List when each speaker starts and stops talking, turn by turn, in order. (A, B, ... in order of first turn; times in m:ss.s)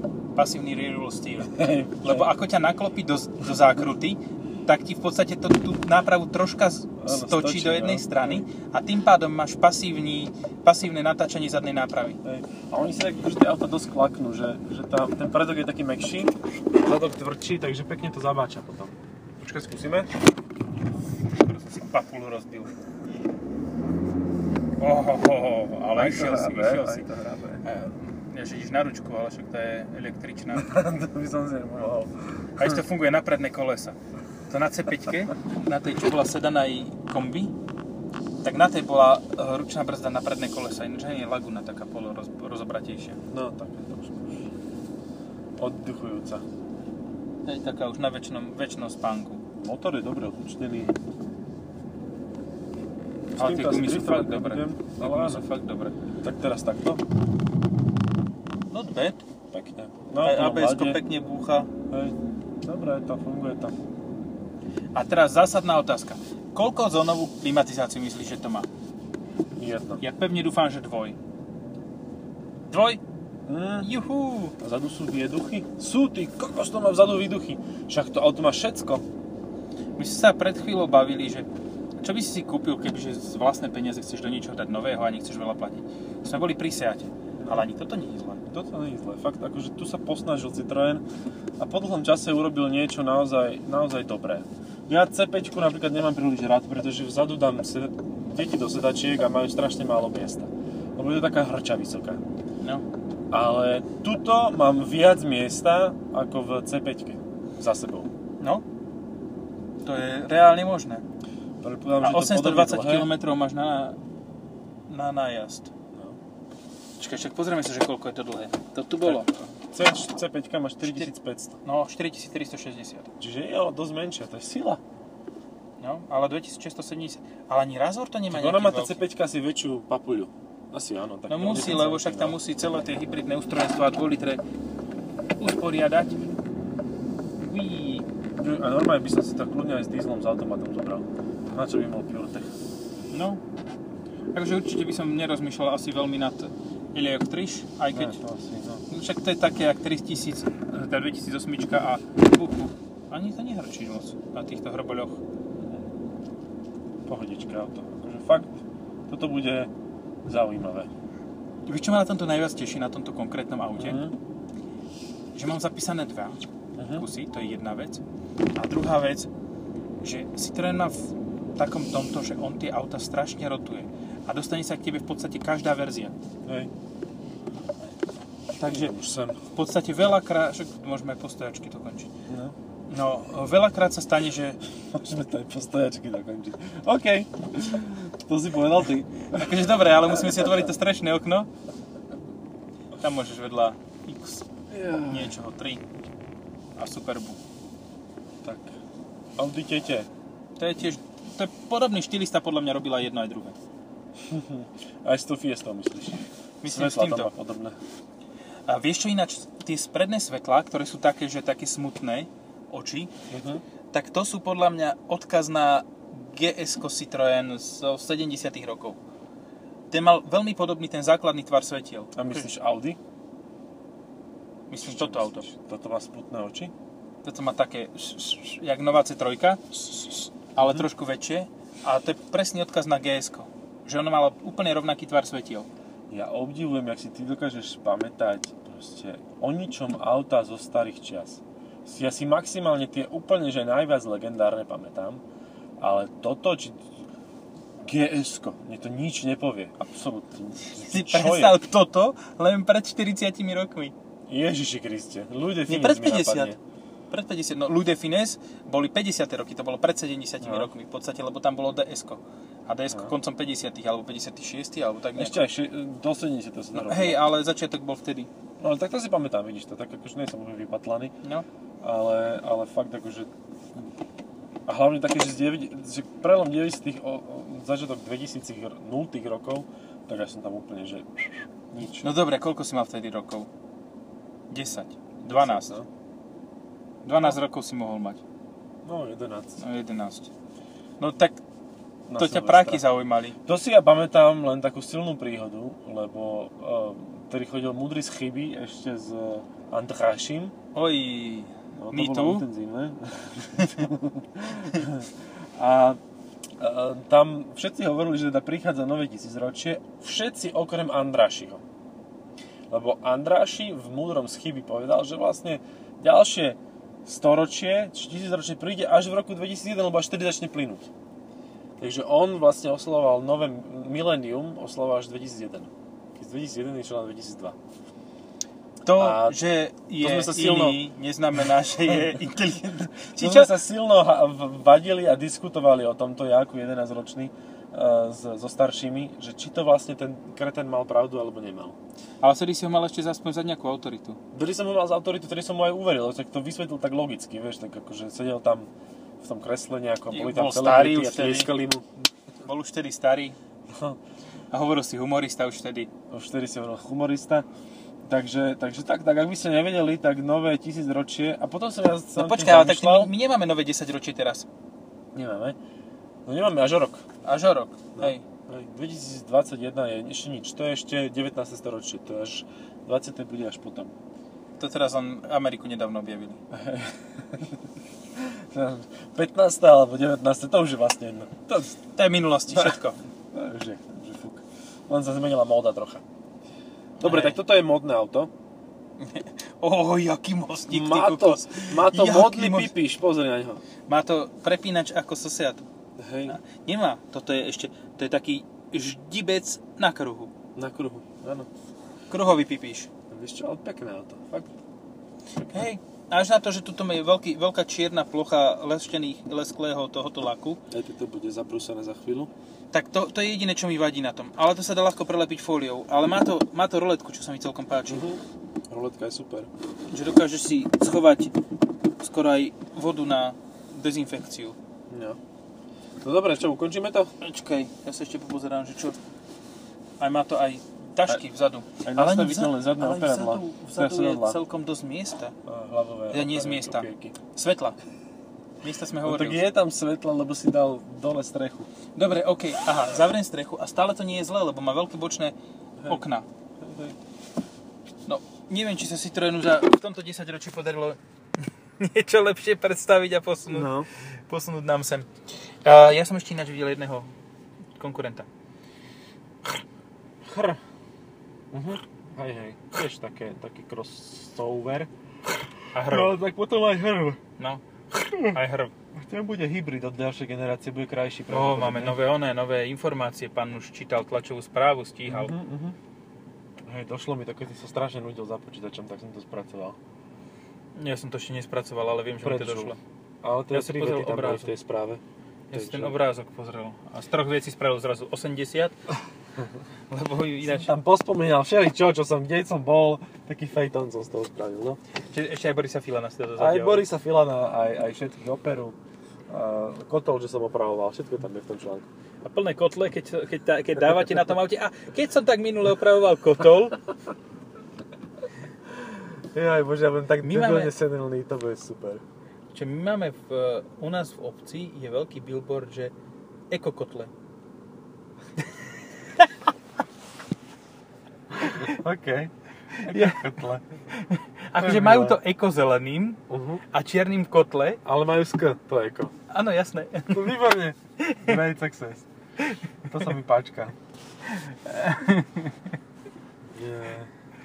0:00.4-0:12.2 A
0:01.5-0:02.3 B
0:07.0-0:08.5 B
0:12.2-0:20.1 B
0:21.3-0:22.7 A
0:24.8-0:27.1 A
0:25.9-0:27.6 B
0:27.6-0:30.7 A
0:30.5-0:32.8 B
0:32.6-0:34.0 A
0:34.5-0:37.5 A
0:38.4-0:43.2 A
0:43.3-0:44.5 B
0:45.6-0:46.4 B
0:47.4-0:49.4 A
0:49.6-0:51.0 B
0:53.4-0:55.4 B
0:53.4-0:55.9 A
0:56.2-0:57.0 B
0:58.7-0:59.2 A
0:59.5-1:01.0 B
1:00.2-1:01.7 A
1:01.9-1:03.8 B
1:04.9-1:08.7 A
1:09.5-1:10.0 B
1:10.0-1:11.2 A
1:12.7-1:13.0 A
1:13.4-1:13.9 B
1:13.8-1:14.6 A
1:14.6-1:19.0 B
1:20.0-1:21.5 A
1:22.0-1:28.4 A
1:27.4-1:27.6 B
1:28.5-1:31.0 B
1:31.6-1:42.2 B
1:43.3-1:48.1 B
1:49.8-1:51.0 A
1:51.6-1:53.1 B
1:52.0-1:54.0 A
1:54.9-1:55.7 A
1:55.9-1:56.2 B
1:57.0-1:59.3 A
1:59.0-2:01.6 B
2:00.8-2:01.1 A
2:01.6-2:03.1 A
2:03.2-2:04.8 B
2:05.8-2:09.0 A
2:08.3-2:12.4 B
2:11.3-2:14.4 A
2:15.4-2:16.2 A
2:17.4-2:18.0 A
2:18.4-2:22.5 B
2:23.1-2:23.4 A
2:24.3-2:28.2 A
2:27.9-2:28.8 B
2:28.9-2:35.2 A
2:35.6-2:35.9 B
2:37.0-2:39.7 B
2:40.2-2:40.9 B
2:41.6-2:44.0 A
2:43.8-2:44.1 B
2:45.3-2:46.4 A
2:46.8-2:47.0 B
2:47.0-2:48.0 A
2:48.6-2:49.3 A
2:50.0-2:56.1 A
2:56.4-2:56.7 B
2:58.6-2:58.9 A
2:58.6-2:59.4 B
2:59.5-3:02.1 A
3:02.3-3:02.5 B
3:02.9-3:04.6 A
3:04.9-3:10.7 B
3:09.3-3:11.5 A
3:13.0-3:14.5 A
3:14.7-3:15.3 B
3:15.0-3:15.8 A
3:16.8-3:17.4 A
3:18.4-3:18.7 B
3:19.4-3:20.1 B
3:20.6-3:23.6 A
3:24.2-3:27.8 B
3:26.6-3:27.3 A
3:28.7-3:33.1 A
3:33.3-3:33.6 B
3:33.9-3:39.0 A
3:39.9-3:42.4 A
3:42.1-3:43.0 B
3:44.7-3:45.5 A
3:44.8-3:46.7 B
3:47.2-3:55.7 A
3:50.6-3:50.8 B
3:56.1-4:05.2 B
4:05.8-4:06.8 B
4:07.8-4:11.6 B
4:10.8-4:13.9 A
4:14.3-4:16.6 B
4:15.7-4:16.5 A
4:17.1-4:25.4 A
4:20.4-4:20.7 B
4:25.2-4:27.2 B
4:26.7-4:28.3 A
4:28.6-4:31.1 B
4:31.8-4:33.9 B
4:34.6-4:42.2 B
4:42.0-4:43.5 A
4:44.5-4:45.7 A
4:45.2-4:45.9 B
4:47.0-4:48.2 A
4:48.8-4:49.6 B
4:49.6-4:50.3 A
4:51.0-4:51.4 A
4:52.1-4:52.8 B
4:52.2-4:53.4 A
4:53.4-5:00.5 B
5:00.7-5:02.5 A
5:01.8-5:06.0 B
5:06.6-5:11.6 B
5:12.7-5:20.9 B
5:21.8-5:27.6 B
5:28.8-5:33.6 A
5:29.0-5:29.4 B
5:30.0-5:30.8 B
5:31.9-5:32.2 B
5:33.2-5:41.8 B
5:42.2-5:44.2 A
5:44.3-5:48.7 B
5:49.2-5:52.0 B
5:50.1-5:51.5 A
5:52.4-5:53.4 A
5:53.7-5:54.0 B
5:54.5-5:55.9 A
5:56.1-5:57.4 B
5:58.0-6:03.1 B
6:02.2-6:04.5 A
6:05.1-6:05.6 B
6:06.2-6:07.0 B
6:07.2-6:08.2 A
6:08.0-6:13.9 B
6:14.6-6:16.4 A
6:16.5-6:21.8 B
6:21.9-6:23.0 A
6:22.5-6:22.8 B
6:23.3-6:26.0 B
6:27.0-6:27.4 A
6:27.0-6:28.3 B
6:29.0-6:32.7 A
6:30.7-6:33.6 B
6:33.9-6:35.6 A
6:36.0-6:36.4 B
6:36.3-6:40.3 A
6:40.5-6:41.5 B
6:42.1-6:42.9 A
6:43.1-6:44.5 B
6:45.5-6:50.6 A
6:50.7-6:52.3 B
6:52.7-6:58.0 A
6:57.9-6:59.5 B
6:59.9-7:01.3 A
7:02.0-7:04.6 A
7:04.9-7:05.2 B
7:06.0-7:07.1 B
7:07.2-7:09.0 A
7:10.0-7:15.3 A
7:11.8-7:14.4 B
7:15.4-7:17.2 B
7:16.1-7:17.8 A
7:18.6-7:19.4 A
7:19.0-7:21.7 B
7:22.0-7:25.3 A
7:25.9-7:26.3 A
7:26.6-7:27.0 B
7:28.0-7:31.0 A
7:31.8-7:33.7 A
7:33.5-7:33.9 B
7:34.3-7:35.1 A
7:35.6-7:37.1 A
7:37.8-7:38.3 A
7:40.2-7:40.6 B
7:41.5-7:44.9 B
7:45.7-7:46.2 A
7:45.8-7:47.2 B
7:47.9-7:48.4 B
7:48.3-7:48.7 A
7:49.0-7:52.0 B
7:51.3-7:55.3 A
7:55.1-7:55.8 B
7:56.6-7:59.8 B
8:00.8-8:02.8 A
8:02.2-8:06.0 B
8:03.5-8:04.5 A
8:05.5-8:08.8 A
8:09.9-8:10.7 A
8:10.4-8:14.8 B
8:15.1-8:16.9 A
8:16.4-8:18.8 B
8:19.3-8:21.9 B
8:22.2-8:26.8 A
8:28.8-8:32.0 B
8:30.2-8:30.7 A
8:32.5-8:35.9 A
8:36.5-8:37.1 A
8:41.3-8:43.6 B
8:41.4-8:41.8 A
8:42.7-8:43.2 A
8:43.9-8:46.2 A
8:44.6-8:45.2 B
8:46.3-8:46.6 B
8:46.7-8:47.8 A
8:47.8-8:49.1 B
8:49.3-8:50.4 A
8:50.1-8:52.0 B
8:51.0-8:51.3 A
8:52.8-8:53.8 B
8:54.3-8:55.6 A
8:56.5-8:57.1 B